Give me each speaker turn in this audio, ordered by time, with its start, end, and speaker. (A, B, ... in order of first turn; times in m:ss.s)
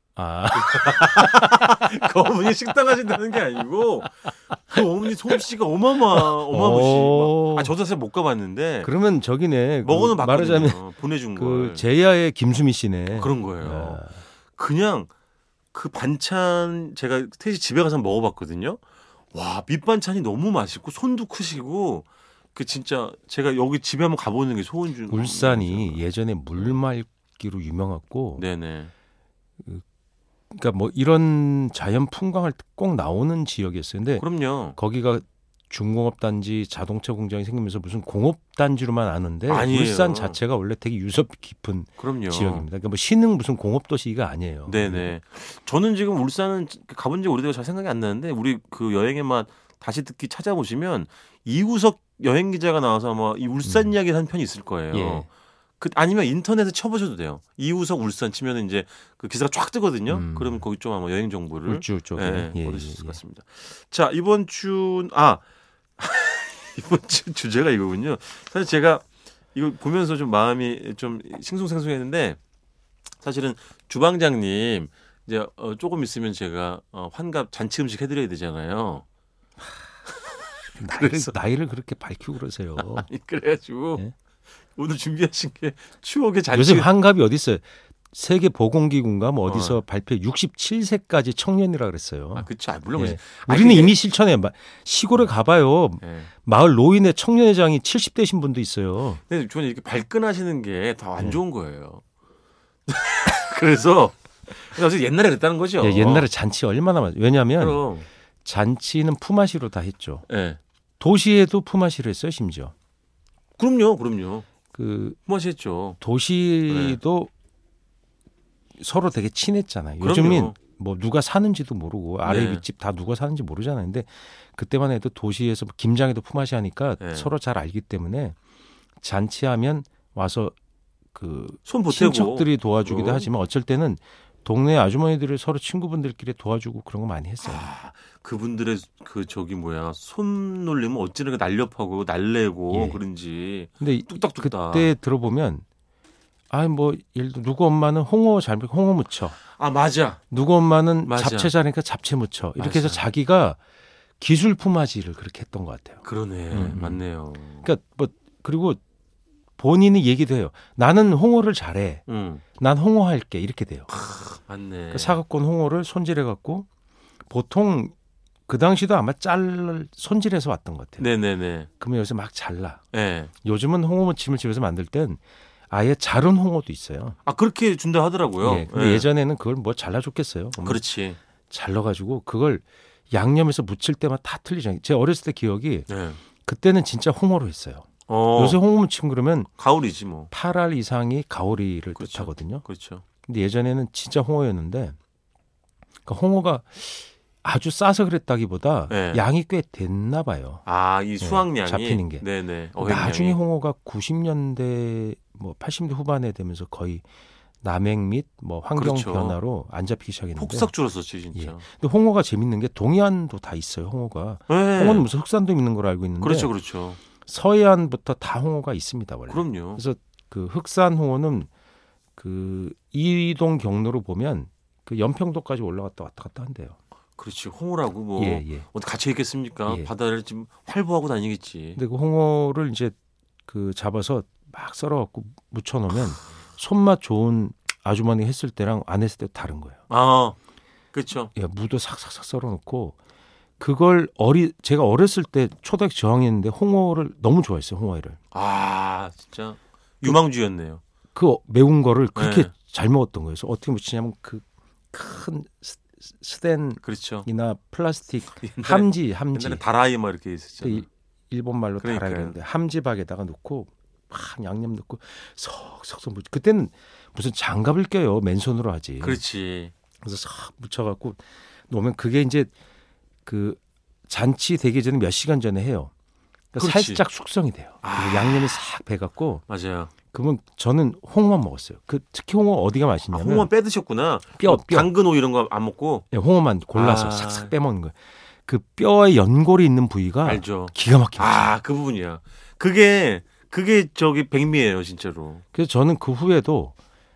0:00.2-0:01.3 A
0:00.5-0:08.9 B
0:06.1-0:07.7 A
0:08.8-0:14.2 A
0:09.8-0:11.9 B
0:13.1-0:15.1 B
0:15.7-0:26.8 B
0:25.1-0:28.4 A
0:28.4-0:28.9 B
0:30.5-0:45.1 A
0:34.2-0:34.8 B
0:39.5-0:40.4 B
0:42.0-0:42.7 B
0:44.7-0:55.3 B
0:53.6-0:53.9 A
0:54.9-0:55.3 A
0:55.8-1:05.4 B
1:00.1-1:00.6 A
1:01.6-1:03.2 A
1:06.0-1:12.4 B
1:13.2-1:19.0 B
1:20.8-1:21.3 B
1:20.8-1:23.1 A
1:22.8-1:24.0 B
1:24.7-1:26.9 B
1:26.5-1:39.2 A
1:29.4-1:29.8 B
1:32.3-1:34.0 B
1:36.0-1:36.3 B
1:39.3-1:42.0 B
1:42.9-1:46.3 B
1:45.8-1:47.8 A
1:47.6-1:48.1 B
1:48.4-1:50.3 A
1:50.3-1:50.6 B
1:51.0-1:52.7 A
1:53.6-1:54.4 B
1:54.7-1:55.2 A
1:55.2-1:56.0 B
1:56.0-1:57.3 A
1:56.7-1:57.0 B
1:58.8-2:08.4 A
2:00.0-2:00.6 B
2:02.2-2:02.6 B
2:07.0-2:07.3 B
2:09.0-2:10.5 A
2:11.1-2:17.7 A
2:11.6-2:13.3 B
2:17.4-2:24.9 B
2:22.7-2:23.0 A
2:23.8-2:25.6 A
2:26.5-2:29.4 A
2:29.4-2:30.2 B
2:30.3-2:33.6 A
2:31.0-2:31.5 B
2:32.6-2:33.0 B
2:34.2-2:37.0 A
2:36.0-2:37.6 B
2:37.6-2:38.8 A
2:39.6-2:42.0 A
2:42.1-2:42.4 B
2:42.6-2:43.9 A
2:43.9-2:45.2 B
2:44.9-2:46.7 A
2:47.3-2:47.9 A
2:48.5-2:51.1 A
2:51.0-2:51.7 B
2:51.8-2:52.8 A
2:52.9-2:53.3 B
2:53.4-2:57.2 A
2:57.2-2:59.1 B
2:58.4-3:00.8 A
3:00.6-3:01.2 B
3:01.5-3:05.9 A
3:05.9-3:06.2 B
3:06.4-3:09.5 A
3:08.1-3:08.6 B
3:09.6-3:10.3 B
3:10.3-3:12.6 A
3:12.0-3:13.0 B
3:13.2-3:15.0 A
3:16.0-3:20.6 A
3:18.9-3:19.2 B
3:20.6-3:23.4 B
3:21.2-3:22.3 A
3:22.8-3:27.0 A
3:27.6-3:30.7 A
3:28.7-3:29.4 B
3:30.4-3:31.6 B
3:31.3-3:36.5 A
3:34.5-3:35.1 B
3:36.2-3:37.0 B
3:37.2-3:41.5 A
3:39.3-3:39.8 B
3:42.2-3:46.8 A
3:47.2-3:51.8 B
3:48.2-3:48.6 A
3:51.8-3:52.9 A
3:53.5-3:59.8 A
3:59.9-4:00.4 B
4:00.9-4:01.3 B
4:01.3-4:03.0 A
4:03.6-4:08.2 A
4:08.3-4:10.8 B
4:11.1-4:19.6 A
4:12.1-4:12.5 B
4:16.8-4:17.3 B
4:18.4-4:20.9 B
4:20.6-4:29.2 A
4:21.8-4:22.4 B
4:29.0-4:29.7 B
4:30.0-4:32.5 A
4:33.2-4:35.9 A
4:36.5-4:39.4 A
4:36.6-4:37.0 B
4:37.8-4:38.6 B
4:39.5-4:39.9 B
4:40.1-4:43.5 A
4:43.1-4:46.0 B
4:44.4-4:44.9 A
4:46.1-4:51.6 A
4:46.7-4:47.5 B
4:50.2-4:55.4 B
4:55.5-4:56.7 A